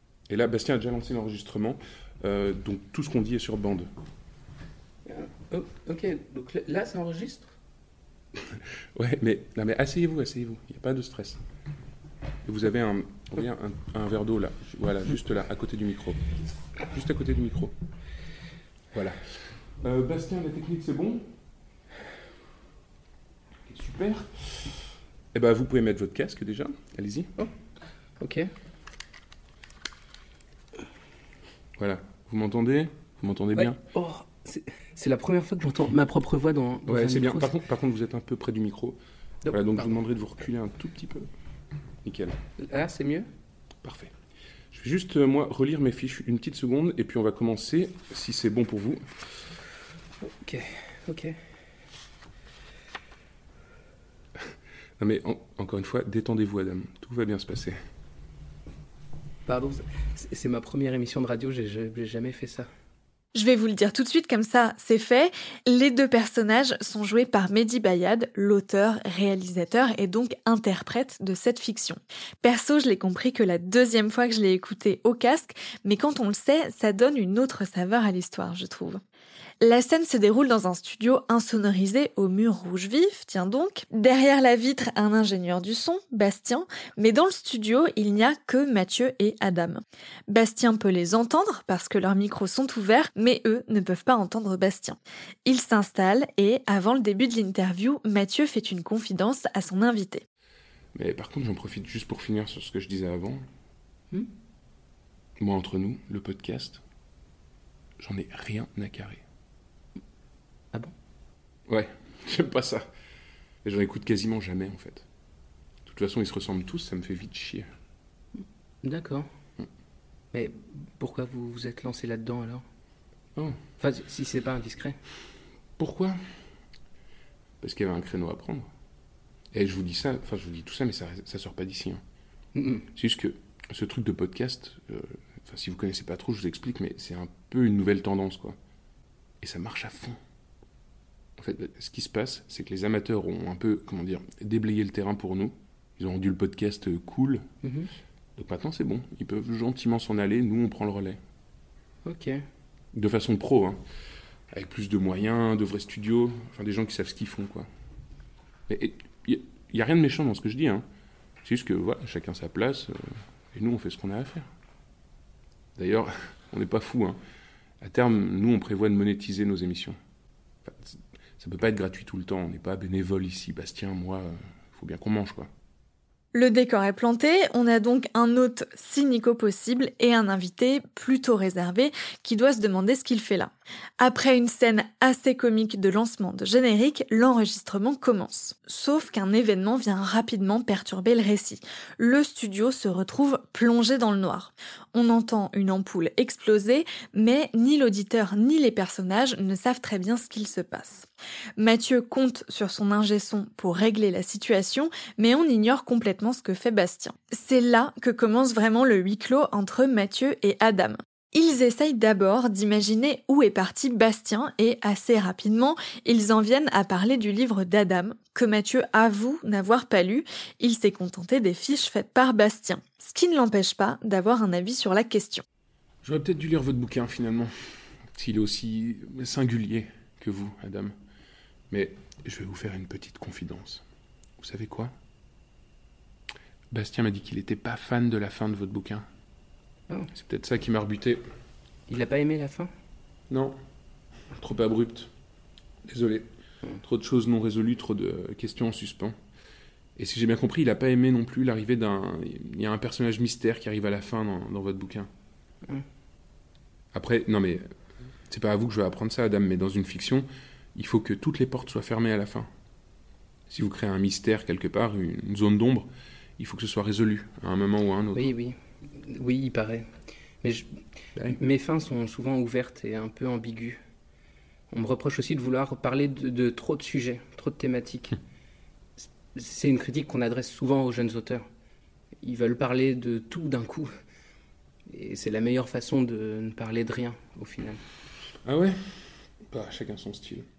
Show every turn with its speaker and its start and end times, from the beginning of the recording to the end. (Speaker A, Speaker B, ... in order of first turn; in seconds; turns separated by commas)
Speaker A: 0.3-3.9, Speaker B: 5.1-7.5, Speaker A: 8.5-11.4, Speaker A: 12.4-16.3, Speaker A: 16.9-17.8, Speaker A: 18.9-21.3, Speaker A: 23.7-24.7, Speaker A: 25.3-27.3, Speaker B: 28.2-28.5, Speaker A: 31.8-33.8, Speaker B: 33.6-37.5, Speaker A: 36.9-41.3, Speaker B: 39.5-39.9, Speaker A: 42.0-42.4, Speaker B: 42.6-43.3, Speaker A: 43.8-44.1, Speaker A: 44.7-49.1, Speaker B: 50.3-51.4, Speaker A: 55.0-57.8, Speaker B: 59.5-62.7, Speaker C: 63.4-79.0, Speaker C: 79.6-100.2, Speaker A: 100.9-103.5, Speaker A: 105.4-106.8, Speaker A: 108.0-109.2, Speaker A: 111.7-112.9, Speaker A: 113.6-115.1, Speaker A: 115.8-117.7, Speaker B: 118.8-119.3, Speaker B: 120.3-122.6, Speaker B: 123.8-125.0, Speaker A: 125.8-126.2, Speaker A: 127.6-128.7, Speaker A: 129.5-132.0, Speaker B: 132.6-132.9, Speaker A: 132.9-138.6, Speaker A: 139.4-140.2, Speaker A: 141.4-147.5, Speaker B: 147.6-147.9, Speaker A: 148.4-151.2, Speaker B: 152.1-152.4, Speaker A: 152.9-153.8, Speaker A: 154.5-157.7, Speaker A: 158.7-160.8, Speaker A: 161.4-164.5, Speaker A: 165.8-167.2, Speaker A: 167.8-170.0, Speaker A: 170.7-175.5, Speaker C: 176.3-225.4, Speaker A: 226.0-227.5, Speaker A: 228.1-230.9, Speaker A: 231.7-233.8, Speaker A: 234.4-234.9, Speaker A: 236.7-239.1, Speaker A: 240.1-241.2, Speaker B: 241.9-242.7, Speaker A: 243.3-243.6, Speaker A: 244.3-245.1, Speaker A: 245.9-249.2, Speaker A: 250.0-255.1, Speaker A: 256.9-257.7, Speaker A: 258.3-262.5, Speaker A: 263.5-268.3, Speaker B: 268.1-269.9, Speaker B: 270.4-270.7, Speaker B: 271.2-273.8, Speaker B: 274.7-278.2, Speaker B: 279.0-281.5, Speaker B: 282.2-283.9, Speaker B: 284.9-287.8, Speaker A: 288.4-290.5